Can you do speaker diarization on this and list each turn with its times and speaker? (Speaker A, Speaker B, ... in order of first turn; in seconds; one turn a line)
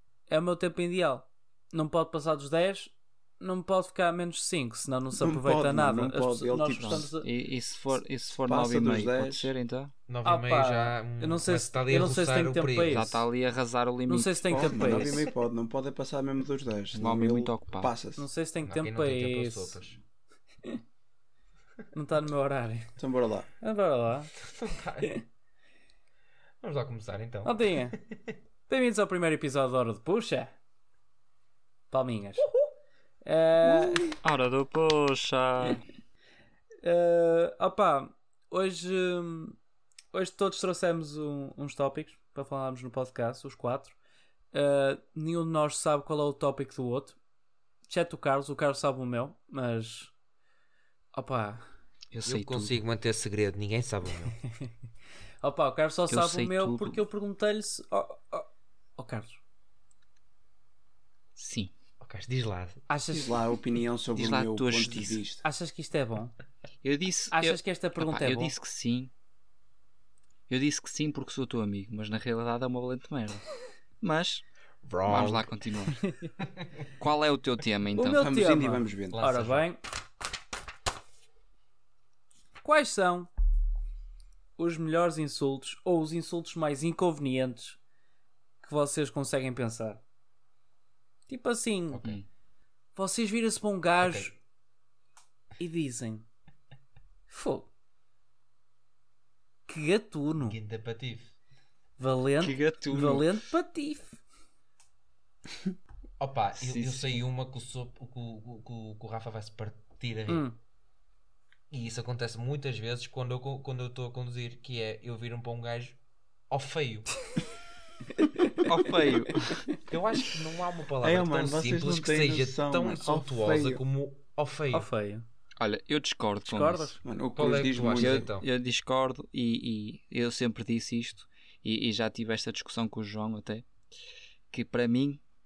Speaker A: 0.3-7.3
Speaker B: 5.1-7.1
Speaker C: 6.8-9.9
Speaker B: 8.4-9.5
Speaker D: 10.1-13.2
Speaker A: 10.2-13.2
Speaker C: 12.9-15.0
Speaker A: 14.1-15.2
Speaker B: 14.5-18.2
Speaker C: 16.9-17.9
Speaker A: 18.1-19.8
Speaker D: 18.6-20.0
Speaker A: 21.9-22.9
Speaker B: 23.0-23.5
Speaker A: 23.6-24.3
Speaker D: 24.4-25.2
Speaker D: 26.6-28.3
Speaker A: 27.4-28.0
Speaker A: 28.7-30.5
Speaker A: 31.9-32.5
Speaker A: 33.2-34.0
Speaker B: 33.7-34.2
Speaker C: 34.2-35.8
Speaker A: 36.8-39.6
Speaker A: 40.1-44.0
Speaker A: 44.5-47.2
Speaker A: 47.9-50.1
Speaker A: 51.1-51.6
Speaker C: 52.1-52.8
Speaker D: 52.2-54.4
Speaker A: 55.4-59.4
Speaker C: 56.1-57.0
Speaker C: 61.4-61.7
Speaker D: 62.0-62.8
Speaker A: 62.9-63.3
Speaker B: 63.1-65.4
Speaker C: 64.1-65.2
Speaker A: 65.4-66.3
Speaker C: 66.8-69.1
Speaker A: 67.3-68.5
Speaker C: 70.5-73.4
Speaker C: 74.0-74.4
Speaker D: 74.8-75.5
Speaker C: 75.1-76.0
Speaker C: 77.0-78.2
Speaker A: 78.0-79.8
Speaker B: 78.1-79.2
Speaker D: 79.1-79.7
Speaker A: 82.6-83.3
Speaker A: 84.6-87.8
Speaker A: 88.6-90.0
Speaker A: 91.3-92.1
Speaker D: 91.9-92.2
Speaker A: 93.0-94.3
Speaker D: 94.0-94.3
Speaker A: 95.6-96.2
Speaker A: 97.3-97.7
Speaker A: 99.7-100.6
Speaker D: 100.4-101.3
Speaker A: 102.0-104.2
Speaker C: 102.4-103.4
Speaker D: 106.2-110.4
Speaker C: 106.6-107.2
Speaker A: 110.3-110.5
Speaker D: 111.7-116.0
Speaker D: 116.5-117.1
Speaker C: 118.6-119.6
Speaker D: 119.8-124.9
Speaker B: 121.0-123.8
Speaker A: 124.7-125.2
Speaker C: 125.6-126.9
Speaker A: 126.4-127.0
Speaker B: 127.0-128.3
Speaker D: 127.3-128.4
Speaker C: 127.9-133.7
Speaker C: 134.5-135.2